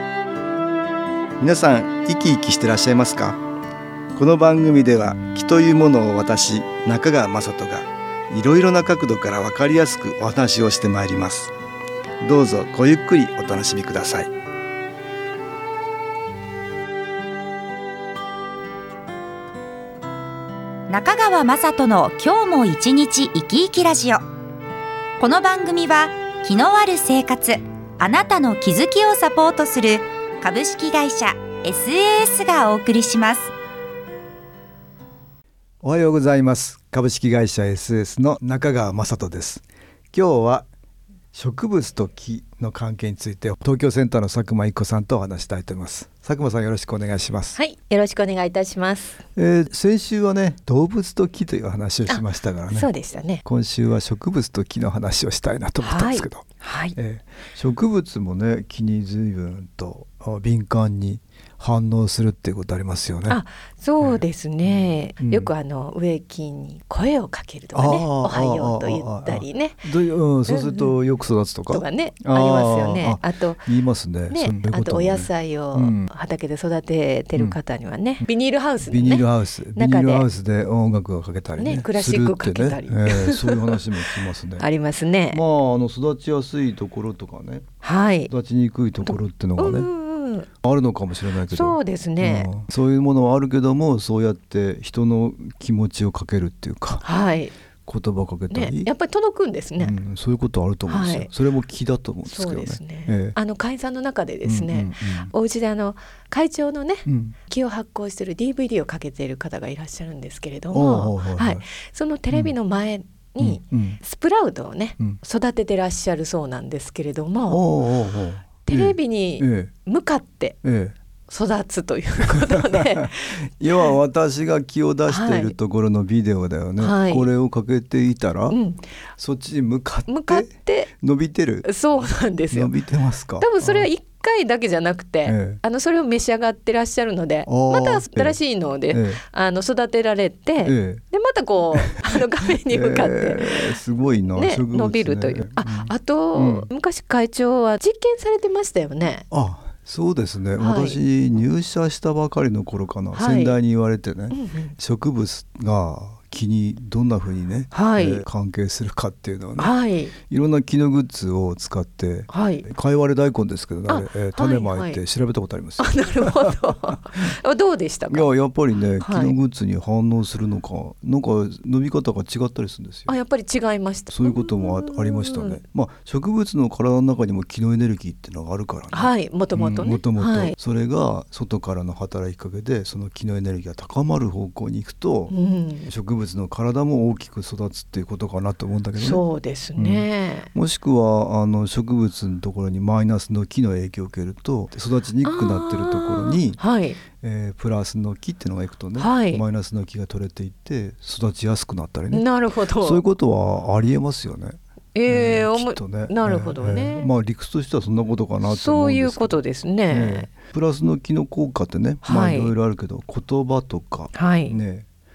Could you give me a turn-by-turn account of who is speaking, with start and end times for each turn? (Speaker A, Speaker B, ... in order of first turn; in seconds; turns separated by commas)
Speaker A: 1.4-3.4, Speaker A: 4.2-11.5, Speaker A: 12.2-14.3, Speaker B: 20.9-24.2, Speaker B: 25.2-33.5, Speaker A: 35.8-40.7, Speaker A: 41.3-47.6, Speaker C: 47.6-49.2, Speaker A: 49.4-52.9, Speaker C: 52.1-53.4, Speaker A: 53.5-63.4, Speaker C: 55.8-57.0, Speaker C: 63.3-69.9, Speaker A: 65.2-65.5, Speaker A: 67.7-76.1, Speaker C: 70.5-70.9, Speaker C: 71.7-73.7, Speaker C: 74.3-80.3, Speaker A: 78.8-84.7, Speaker C: 81.6-85.4, Speaker A: 85.3-87.7, Speaker C: 87.8-88.3, Speaker A: 88.3-89.9, Speaker C: 89.0-90.5, Speaker A: 90.6-97.0, Speaker C: 91.5-92.5, Speaker C: 97.0-97.5, Speaker A: 97.9-98.9, Speaker C: 98.5-100.0, Speaker A: 99.8-103.4, Speaker C: 100.9-101.3, Speaker C: 102.3-117.7, Speaker A: 104.5-105.3, Speaker A: 107.1-107.4, Speaker A: 110.7-111.7, Speaker A: 113.4-114.0, Speaker A: 117.5-119.7, Speaker C: 118.7-120.6, Speaker A: 120.6-121.0, Speaker C: 121.3-123.4, Speaker A: 122.2-128.6, Speaker C: 125.1-125.5, Speaker C: 126.8-127.3, Speaker C: 128.5-128.8, Speaker A: 129.2-131.7, Speaker C: 130.1-130.9, Speaker C: 131.6-132.7, Speaker A: 132.5-133.9, Speaker C: 133.4-143.7, Speaker A: 135.2-135.6, Speaker A: 137.5-139.2, Speaker A: 140.6-141.0, Speaker A: 142.6-146.7, Speaker C: 144.3-149.3, Speaker A: 149.3-166.9, Speaker C: 150.6-151.0, Speaker C: 153.1-153.6, Speaker C: 154.3-154.8, Speaker C: 157.7-158.2, Speaker C: 159.6-160.1, Speaker C: 162.3-162.7, Speaker C: 163.9-165.0, Speaker C: 165.8-168.3, Speaker A: 168.1-173.1, Speaker C: 169.0-169.4, Speaker C: 173.1-175.6, Speaker A: 174.1-189.2, Speaker C: 178.9-180.6, Speaker C: 185.3-185.9, Speaker C: 189.0-190.5, Speaker A: 189.8-196.6, Speaker C: 195.2-197.0, Speaker A: 197.1-204.6, Speaker C: 199.0-199.4, Speaker C: 202.1-203.1, Speaker C: 204.9-207.1, Speaker A: 205.1-214.9, Speaker C: 208.4-210.3, Speaker C: 212.0-212.5, Speaker C: 214.1-214.6